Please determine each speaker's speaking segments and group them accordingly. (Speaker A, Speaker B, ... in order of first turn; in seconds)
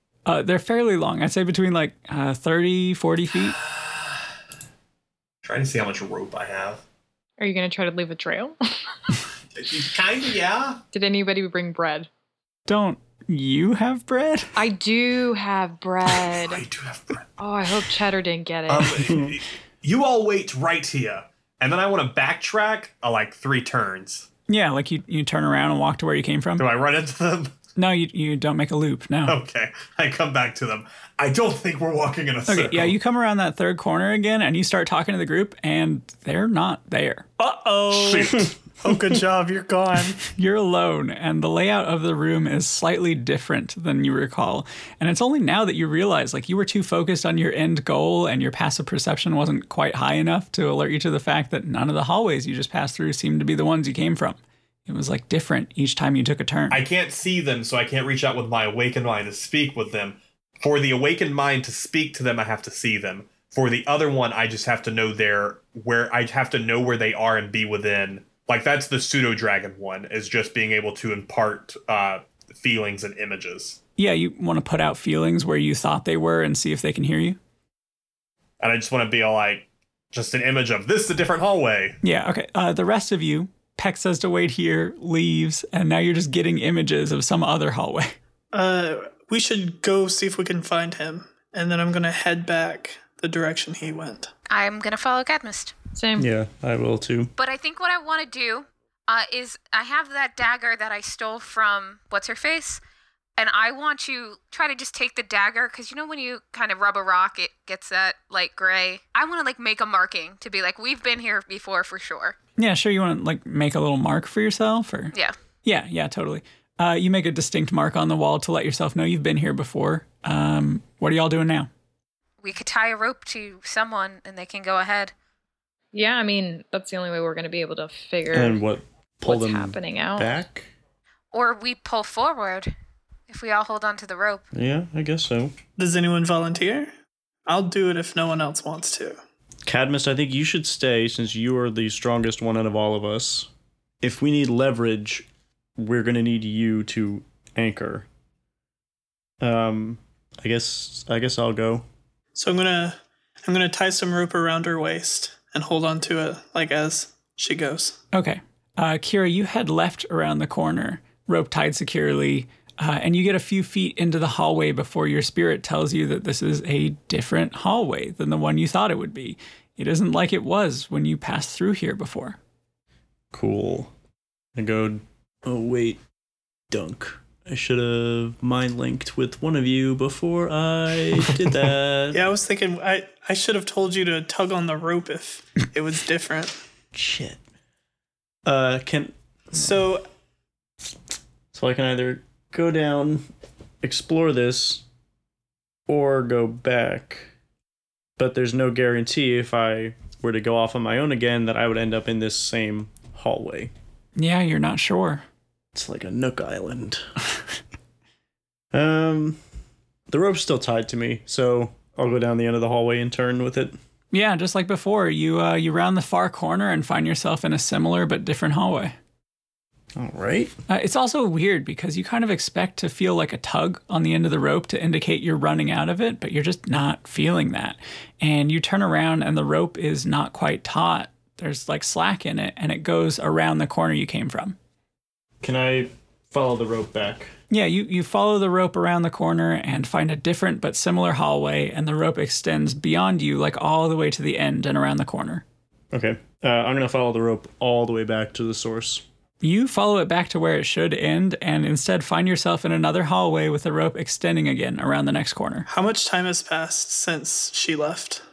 Speaker A: 0.3-3.6, 12.7-14.6, 24.5-26.6, 27.8-29.4, 32.5-37.3, 40.3-56.8, 74.0-77.4, 82.0-88.2, 112.6-121.7, 158.1-172.4, 204.2-205.2, 214.1-218.9, 220.7-234.6, 237.5-245.4, 249.4-255.7
Speaker B: 5.4-6.8, 9.6-10.8, 16.3-17.3, 18.7-24.3, 26.6-27.6, 29.3-33.0, 37.9-38.3, 56.7-73.8, 78.6-82.0
Speaker C: 7.4-9.2, 10.9-12.1, 14.6-16.6, 17.4-19.2, 96.0-96.3, 125.9-128.6, 129.2-130.3
Speaker D: 37.4-38.4, 88.5-94.3, 135.8-136.9, 137.5-139.2, 152.3-158.0, 182.1-186.6, 189.5-190.1, 255.7-258.2
Speaker E: 94.5-95.7, 97.4-102.8, 103.4-112.4, 122.4-125.1, 131.3-132.7, 133.3-134.4
Speaker F: 96.2-97.3, 128.3-130.7, 134.5-135.5, 139.7-143.5, 144.0-145.3, 145.8-148.1, 149.4-151.8, 173.3-173.9, 174.6-176.0, 176.7-182.2, 186.9-187.4, 188.4-189.5, 191.5-193.3, 193.8-194.8, 195.9-197.3, 198.2-203.7, 205.7-207.0, 208.7-209.4, 210.1-213.7, 220.0-220.6, 235.4-237.3, 245.9-249.0